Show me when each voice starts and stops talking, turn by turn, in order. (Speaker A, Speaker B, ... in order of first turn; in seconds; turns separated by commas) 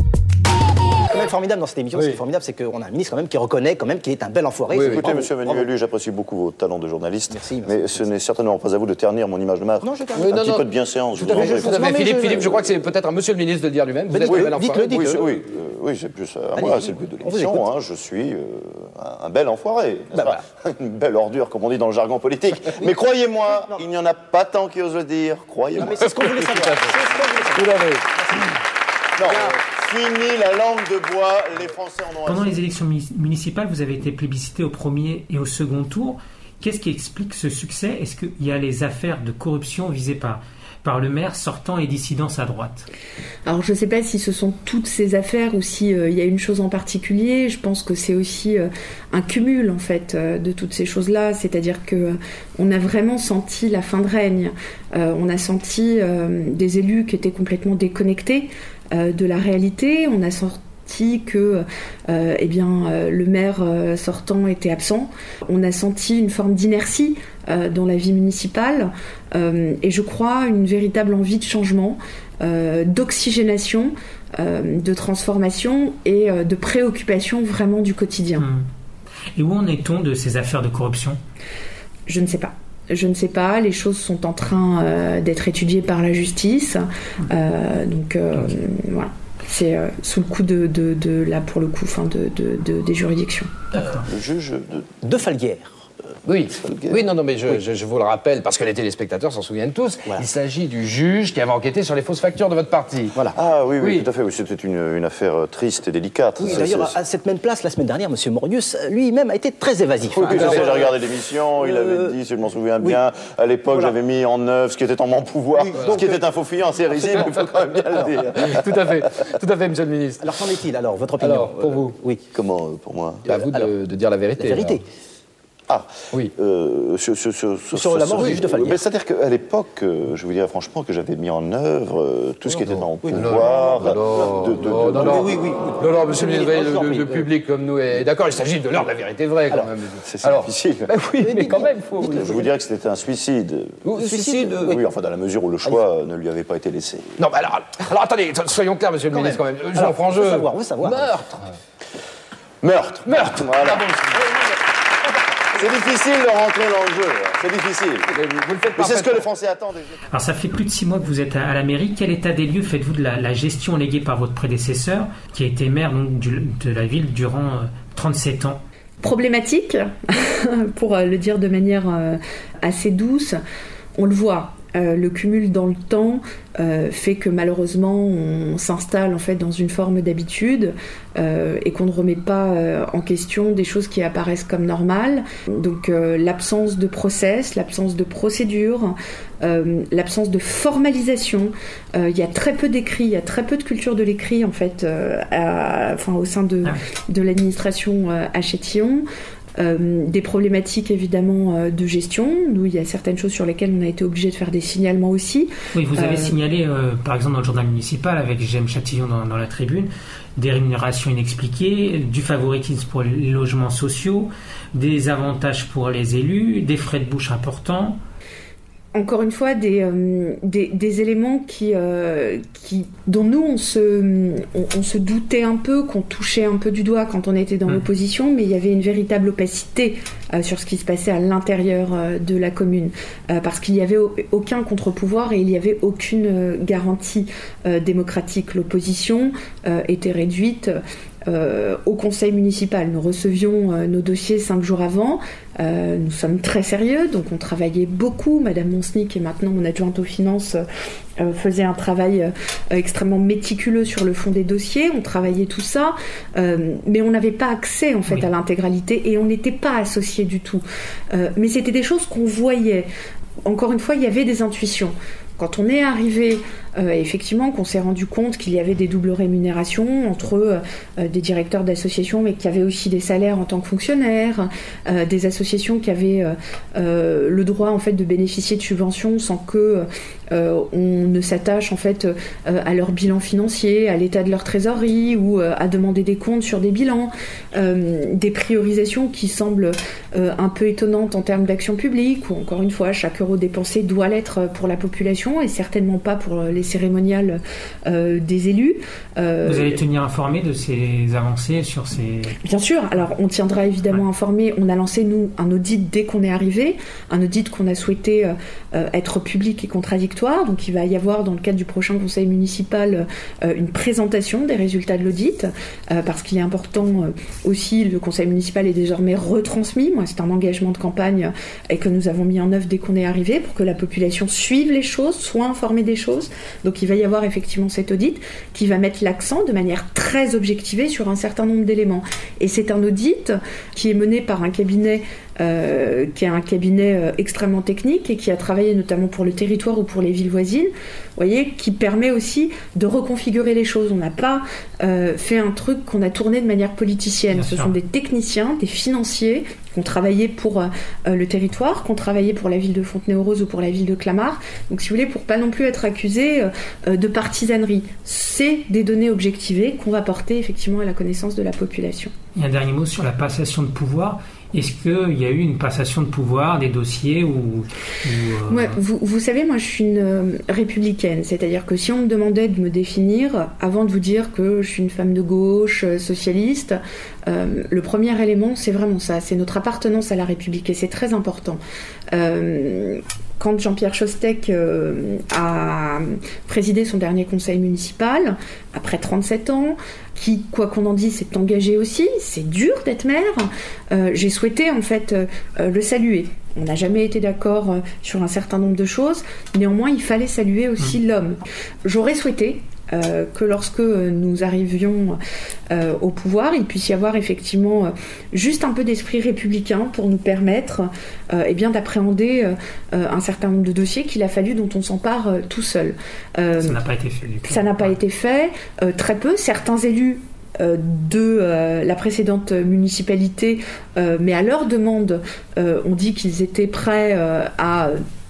Speaker A: 1.1-5.3, Speaker B: 1.9-2.2, Speaker B: 4.7-5.6, Speaker C: 4.9-12.0, Speaker A: 7.3-8.0, Speaker A: 9.8-10.5, Speaker B: 10.2-10.6, Speaker A: 11.2-12.6, Speaker B: 11.2-15.2, Speaker A: 14.1-15.2, Speaker C: 14.3-26.7, Speaker A: 16.6-17.7, Speaker A: 20.1-20.4, Speaker A: 25.8-27.9, Speaker B: 26.0-26.6, Speaker C: 29.2-32.6, Speaker D: 32.2-42.9, Speaker E: 43.5-78.5, Speaker D: 78.4-78.7, Speaker D: 79.3-81.2, Speaker E: 82.1-93.5, Speaker C: 94.0-94.9, Speaker A: 95.0-95.8, Speaker B: 96.2-104.1, Speaker C: 96.6-97.0, Speaker C: 103.3-106.9, Speaker A: 106.4-111.0, Speaker C: 110.1-118.8, Speaker B: 110.3-110.8, Speaker A: 111.6-112.1, Speaker A: 115.6-116.1, Speaker B: 115.8-116.1, Speaker B: 118.3-120.5, Speaker A: 120.2-122.2, Speaker B: 121.2-122.0, Speaker C: 122.3-123.2, Speaker B: 123.2-124.8, Speaker A: 123.4-123.7, Speaker A: 124.4-124.8, Speaker C: 125.7-135.3, Speaker A: 127.7-128.8, Speaker B: 128.1-128.4, Speaker A: 133.0-133.7, Speaker B: 133.1-142.4, Speaker A: 135.0-137.2, Speaker C: 140.0-147.2, Speaker A: 141.2-141.6, Speaker B: 143.9-144.7, Speaker A: 144.3-144.7, Speaker B: 147.2-151.5, Speaker A: 149.1-151.2, Speaker C: 152.6-153.9, Speaker B: 153.1-154.0, Speaker C: 155.5-158.1, Speaker B: 158.1-159.3, Speaker C: 158.7-160.0, Speaker D: 160.1-168.6, Speaker E: 169.0-173.4, Speaker E: 174.0-199.1, Speaker E: 199.6-206.3, Speaker D: 205.7-218.0, Speaker E: 218.9-250.6, Speaker E: 251.2-262.9, Speaker E: 263.4-299.8, Speaker D: 299.4-302.4, Speaker E: 302.4-362.1, Speaker D: 347.3-347.7, Speaker D: 362.4-368.8, Speaker E: 368.5-381.6, Speaker E: 382.1-405.2, Speaker E: 405.7-416.8, Speaker D: 416.6-417.9, Speaker E: 417.4-428.0